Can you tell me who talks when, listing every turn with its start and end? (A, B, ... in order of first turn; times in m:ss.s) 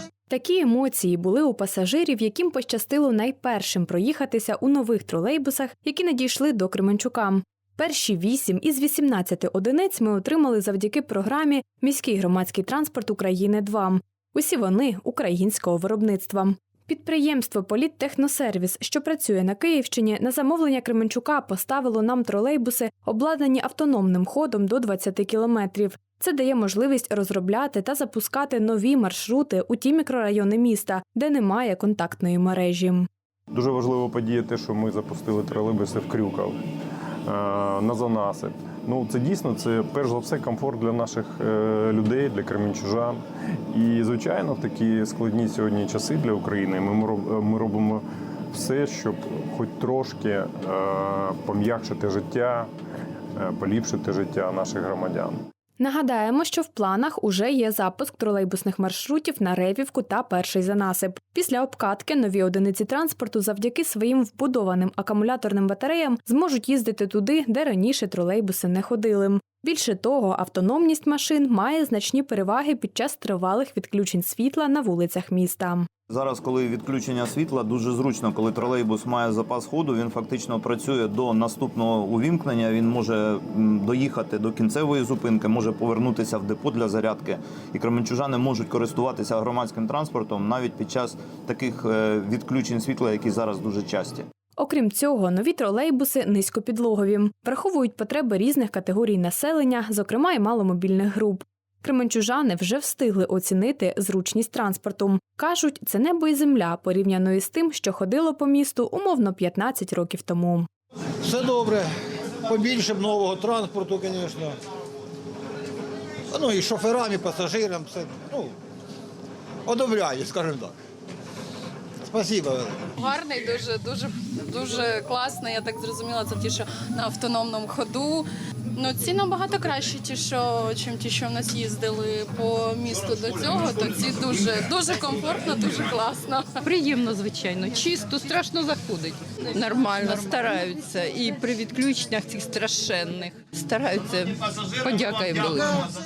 0:00.3-0:33.1 A
0:33.5-0:36.6 B
0:37.3-0:43.2 B
0:43.7-0:52.7 B
0:53.4-0:55.4 B
0:55.8-1:15.9 A
1:16.1-1:34.3 C
1:34.6-1:50.7 A
1:51.2-1:51.9 D
1:52.4-1:54.6 D
1:56.3-1:58.5 D
1:59.6-2:00.7 D
2:02.0-2:02.9 D
2:03.0-2:16.5 E
2:16.6-2:25.9 F